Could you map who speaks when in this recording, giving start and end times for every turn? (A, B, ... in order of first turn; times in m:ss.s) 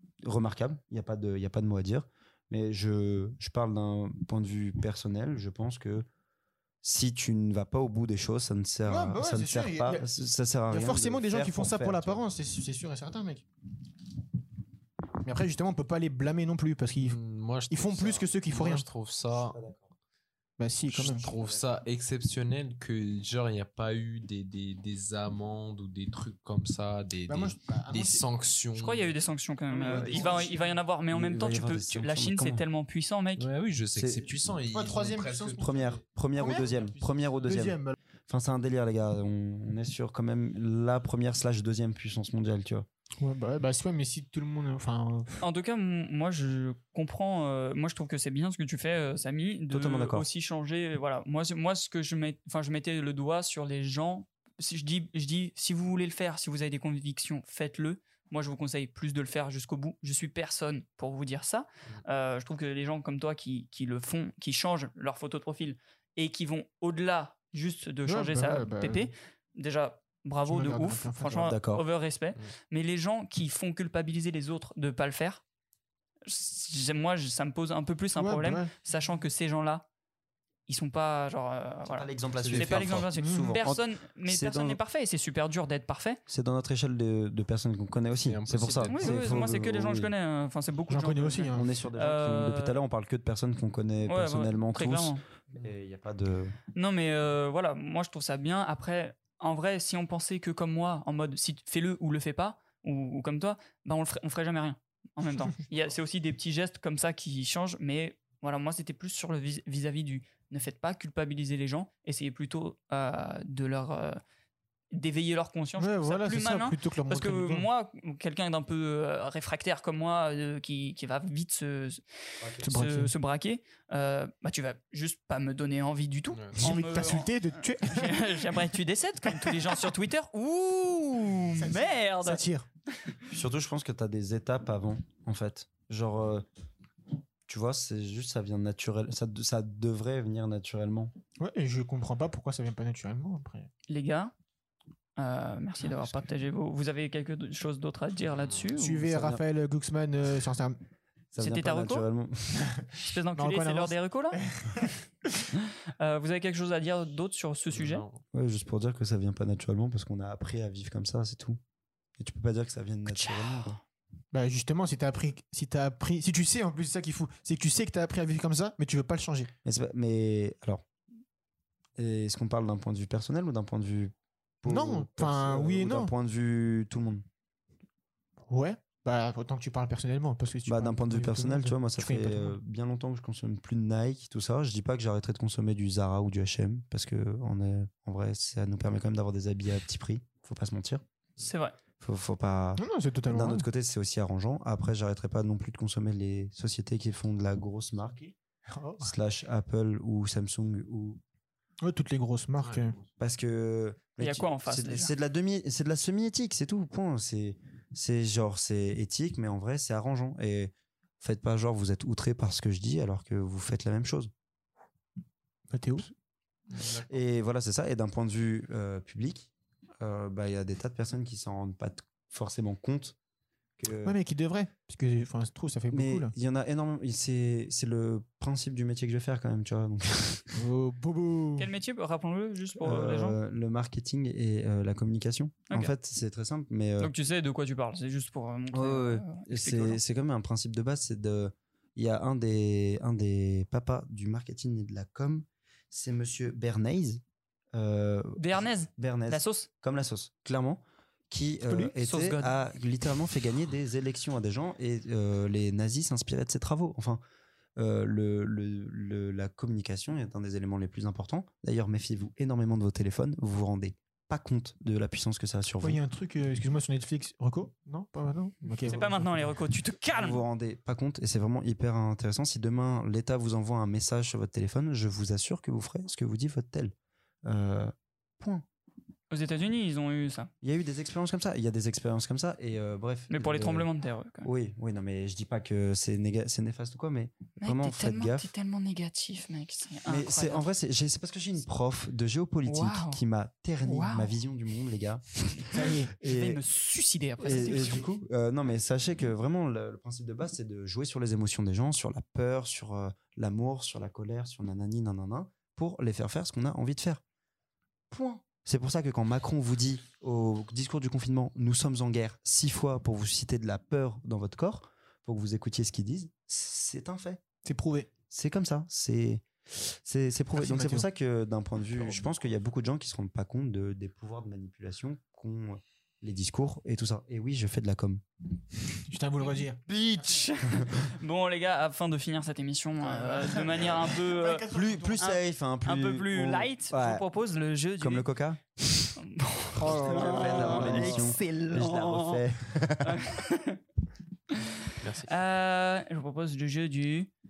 0:00.2-0:06.1 A
0:06.8-0:12.2 A
0:08.9-0:10.0 B
0:10.7-0:13.4 B
0:15.2-0:17.2 B
0:17.0-0:19.6 C
0:17.7-0:18.8 B
0:19.3-0:19.9 A
0:20.6-0:21.3 B
0:20.9-0:29.1 C
0:21.2-0:21.7 A
0:27.3-0:28.2 B
0:28.8-0:33.5 D
0:29.7-0:30.6 A
0:29.9-0:30.6 B
0:31.1-0:32.6 A
0:33.4-0:36.0 C
0:34.0-0:34.3 A
0:34.7-0:35.7 B
0:35.6-0:42.9 A
0:36.4-0:38.0 B
0:43.2-0:45.4 B
0:45.4-1:15.4 D
0:49.7-0:50.3 A
1:08.0-1:09.1 B
1:10.5-1:11.4 B
1:11.3-1:11.8 A
1:16.2-1:19.8 D
1:18.2-1:18.7 B
1:20.7-1:26.2 D
1:21.9-1:24.8 A
1:22.4-1:23.0 C
1:23.2-1:23.5 B
1:26.3-1:30.1 A
1:28.2-1:29.1 C
1:28.9-1:32.8 D
1:30.9-1:31.7 B
1:31.5-1:36.6 A
1:34.1-1:35.2 D
1:36.8-1:54.2 D
1:54.9-2:02.0 D
1:55.8-1:57.7 B
2:02.4-2:02.7 A
2:02.6-2:12.4 D
2:02.6-2:03.1 B
2:06.3-2:06.6 C
2:06.6-2:08.4 B
2:09.3-2:09.8 B
2:11.6-2:12.7 B
2:13.3-2:16.5 A
2:17.5-2:21.1 A
2:21.4-2:23.7 B
2:23.9-2:24.3 D
2:25.2-2:29.1 D
2:28.4-2:28.7 C
2:28.8-2:30.8 B
2:29.0-2:29.4 A
2:31.3-2:32.7 A
2:31.4-2:32.1 D
2:33.0-2:34.4 D
2:33.3-2:34.9 B
2:36.0-2:38.0 D
2:37.7-2:38.2 C
2:38.3-2:41.6 A
2:42.2-2:43.8 A
2:43.0-2:43.8 D
2:44.3-2:49.5 B
2:49.6-2:50.8 A
2:52.0-2:57.2 A
2:54.7-2:56.1 B
2:58.5-3:02.6 B
3:00.6-3:11.0 A
3:11.4-3:11.8 D
3:12.0-3:18.2 A
3:12.8-3:13.7 B
3:18.2-3:19.1 B
3:19.0-3:21.2 A
3:21.8-3:23.0 B
3:22.6-3:23.0 C
3:23.2-3:34.3 A
3:24.2-3:25.1 D
3:35.7-3:36.1 B
3:36.7-3:37.1 C
3:37.1-3:43.2 A
3:43.8-3:44.2 A
3:44.0-3:46.3 B
3:45.9-3:50.6 A
3:50.5-3:51.7 B
3:51.6-3:53.4 D
3:52.8-3:57.1 A
3:57.0-4:00.0 D
3:58.7-4:17.2 A
4:08.4-4:09.7 D
4:11.7-4:12.5 D
4:17.8-4:26.0 A
4:25.8-4:29.4 B
4:28.9-4:30.4 D
4:30.1-4:36.9 A
4:37.4-4:38.7 A
4:39.3-4:40.5 D
4:40.6-4:43.9 A
4:43.3-4:44.5 D
4:44.4-4:48.5 A
4:47.6-4:50.7 D
4:50.1-4:56.6 A
4:52.6-4:53.2 D
4:53.8-4:54.3 D
4:55.7-4:56.1 B
4:56.2-4:58.1 D
4:57.4-5:07.2 A
5:08.1-5:17.4 A
5:17.6-5:18.1 B
5:18.3-5:28.2 A
5:20.6-5:21.1 B
5:29.1-5:29.8 B
5:29.9-5:31.0 A
5:30.2-5:34.7 D
5:33.0-5:35.2 B
5:34.7-5:37.2 A
5:35.2-5:38.3 D
5:38.0-5:39.1 A
5:39.2-5:42.4 D
5:39.8-5:41.4 B
5:39.8-5:43.2 A
5:43.0-5:43.8 D
5:45.0-5:45.3 C
5:45.3-5:47.3 D